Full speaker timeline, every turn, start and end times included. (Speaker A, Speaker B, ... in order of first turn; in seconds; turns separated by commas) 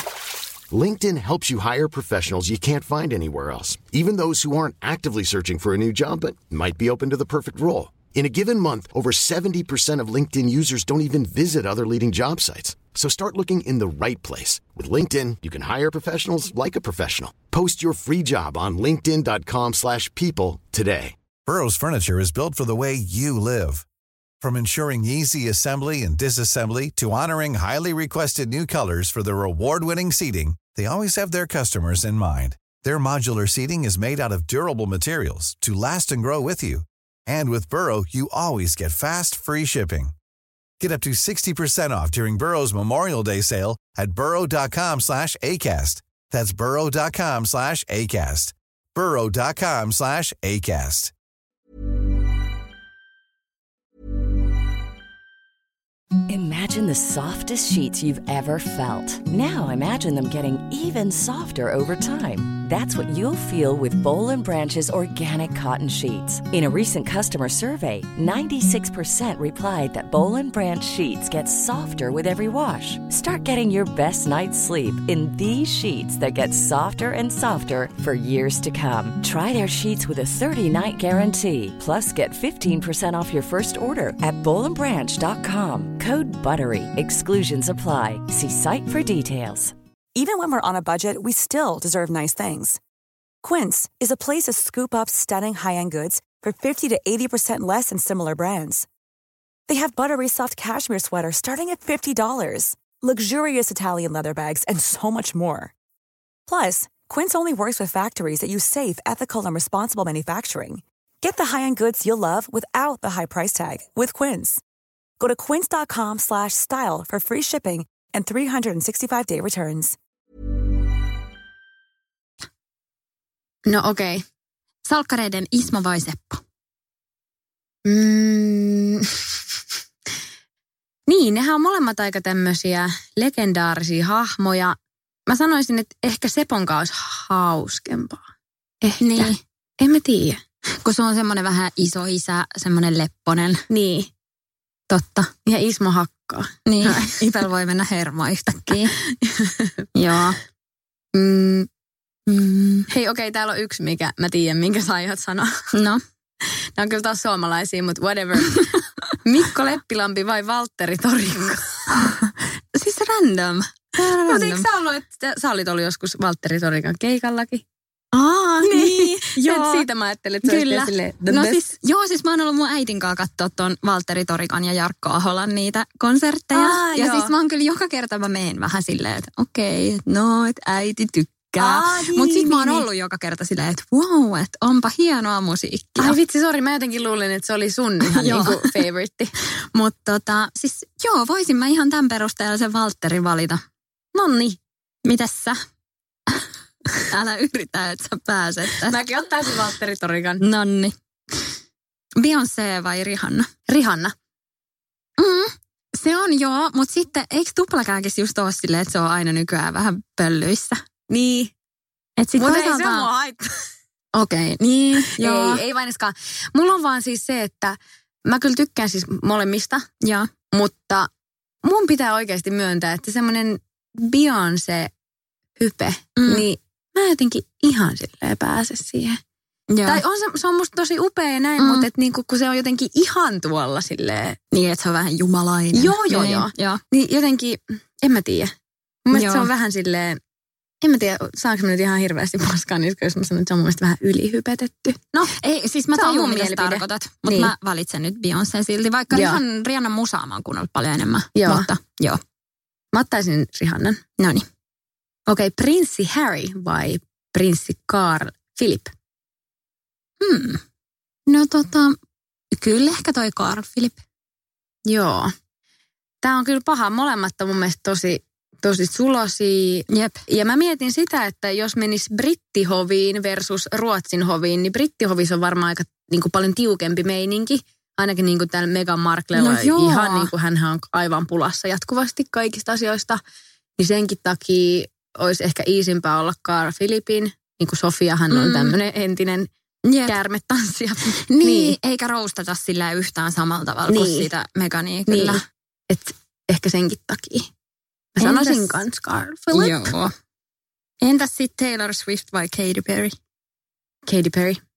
Speaker A: 0.7-21.1, Speaker B: 21.4-23.9, Speaker B: 24.4-40.1, Speaker B: 40.8-51.1, Speaker C: 56.3-89.7, Speaker D: 90.1-92.8, Speaker D: 93.4-98.9, Speaker D: 99.7-105.7, Speaker D: 106.5-114.6, Speaker D: 115.2-120.0, Speaker E: 123.7-124.2, Speaker F: 124.8-126.4, Speaker E: 127.8-129.3, Speaker E: 131.1-134.8, Speaker E: 135.3-138.2, Speaker E: 138.8-140.4, Speaker F: 139.0-139.4, Speaker F: 140.8-143.7, Speaker E: 143.7-144.1, Speaker F: 144.9-145.3, Speaker E: 145.4-147.2, Speaker F: 146.7-149.0, Speaker E: 149.2-149.7, Speaker F: 149.9-150.4, Speaker E: 151.1-151.7, Speaker F: 152.3-152.9, Speaker E: 152.9-155.5, Speaker F: 155.7-156.0, Speaker E: 156.4-162.0, Speaker F: 161.9-164.7, Speaker E: 164.2-167.6, Speaker F: 168.1-169.8, Speaker E: 168.6-171.7, Speaker F: 170.4-186.2, Speaker E: 176.5-177.3, Speaker E: 181.6-182.8, Speaker E: 186.0-189.3, Speaker F: 188.1-188.7, Speaker F: 189.4-193.6, Speaker E: 194.1-194.6, Speaker F: 195.0-195.6, Speaker F: 197.1-199.0, Speaker E: 198.8-200.4, Speaker F: 200.4-201.6, Speaker F: 202.2-203.5, Speaker E: 203.7-204.1, Speaker F: 205.2-210.8, Speaker E: 211.1-211.5, Speaker F: 212.2-213.1, Speaker E: 212.3-213.4, Speaker F: 214.1-215.6, Speaker E: 215.0-219.9, Speaker F: 220.0-220.3, Speaker E: 220.5-221.1, Speaker E: 221.6-224.9, Speaker E: 225.6-229.2, Speaker F: 226.2-226.4, Speaker F: 229.7-230.0, Speaker E: 229.8-234.4, Speaker F: 231.6-231.9, Speaker F: 234.5-236.8, Speaker E: 235.7-238.5, Speaker E: 239.1-240.2, Speaker F: 239.1-239.5, Speaker E: 240.8-245.3, Speaker F: 245.3-252.2, Speaker E: 245.9-247.5, Speaker E: 249.1-249.4, Speaker E: 251.3-251.7, Speaker E: 252.9-254.0, Speaker F: 254.2-254.4, Speaker E: 255.3-258.9, Speaker F: 260.2-260.6, Speaker F: 261.3-262.0, Speaker F: 262.5-264.0, Speaker E: 264.9-265.3, Speaker E: 266.2-283.2, Speaker F: 269.9-270.2, Speaker F: 279.4-280.3, Speaker E: 283.8-289.5, Speaker F: 288.3-288.8, Speaker F: 289.9-290.1, Speaker E: 290.1-291.8, Speaker F: 291.3-295.4, Speaker E: 293.9-294.3, Speaker E: 295.1-297.5, Speaker E: 298.1-299.9, Speaker F: 298.2-298.8, Speaker F: 299.5-300.1, Speaker F: 301.0-303.1, Speaker E: 304.1-304.6